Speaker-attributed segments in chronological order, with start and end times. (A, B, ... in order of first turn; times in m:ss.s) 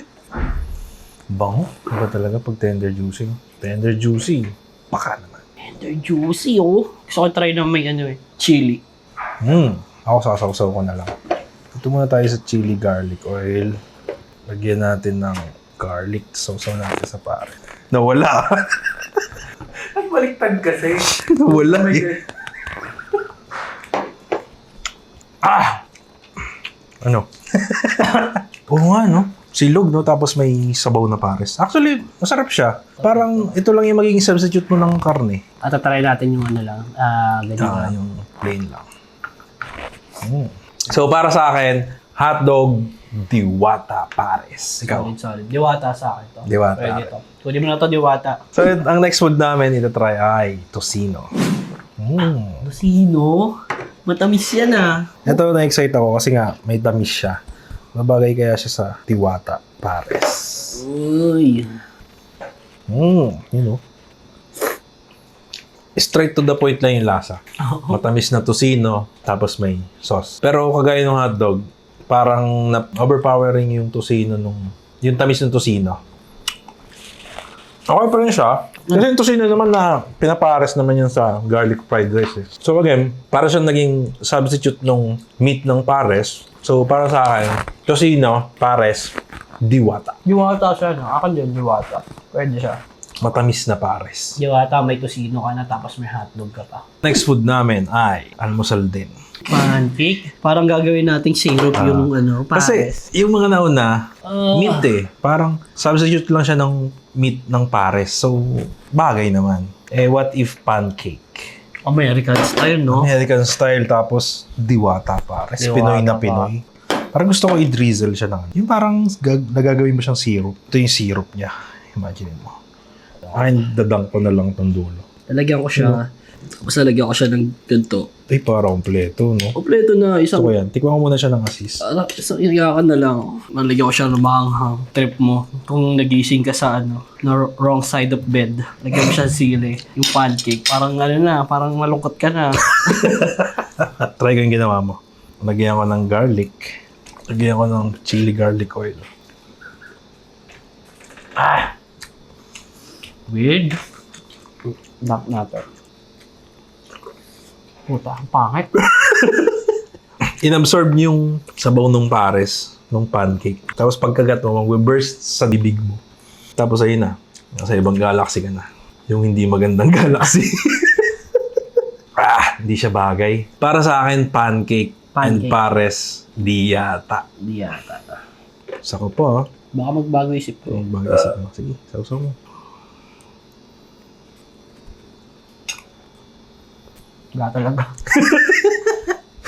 0:01.3-0:05.4 A
0:05.6-0:08.8 B
0:09.4-0:11.1 A
0:11.7-0:13.8 A
0:14.5-0:19.0 A
0:20.7-0:22.2 A
0:25.4-0:25.8 A
0:27.0-0:35.4 A
0:33.0-0:33.5 B
0:35.6-0:37.9 B
0:37.6-0:38.8 A
0:40.2-0:45.1 A
0:44.8-0:48.4 B
0:46.4-0:47.1 A
0:48.5-0:51.3 A
0:52.0-0:52.7 A
0:52.6-0:55.2 B
0:55.2-0:57.4 A
0:57.9-1:00.8 A
1:00.8-1:01.8 B
1:02.9-1:03.8 A
1:06.0-1:16.0 A
1:07.6-1:08.0 B
1:17.9-1:30.2 A
1:30.2-1:32.8 B
1:33.2-1:34.4 A
1:34.4-1:36.8 B
1:37.0-1:39.1 A
1:39.5-1:43.0 B
1:41.7-1:51.5 A
1:44.2-1:44.9 B
1:51.8-1:53.1 B
1:52.9-2:02.6 A
1:55.6-1:56.5 B
2:03.3-2:05.0 A
2:05.3-2:06.0 B
2:06.6-2:08.1 B
2:08.3-2:09.5 A
2:09.6-2:10.5 B
2:10.3-2:11.8 A
2:11.8-2:23.2 B
2:22.7-2:29.1 A
2:31.4-2:31.7 B
2:33.3-2:33.8 B
2:35.0-2:35.6 B
2:37.9-2:38.7 B
2:38.9-2:39.3 A
2:40.4-2:46.0 A
2:46.6-2:51.1 A
2:52.2-2:57.2 A
2:55.1-2:55.6 B
2:57.4-2:58.2 B
2:58.8-2:59.4 A
2:59.7-3:00.8 B
3:00.7-3:02.4 A
3:07.3-3:08.1 B
3:08.2-3:08.9 A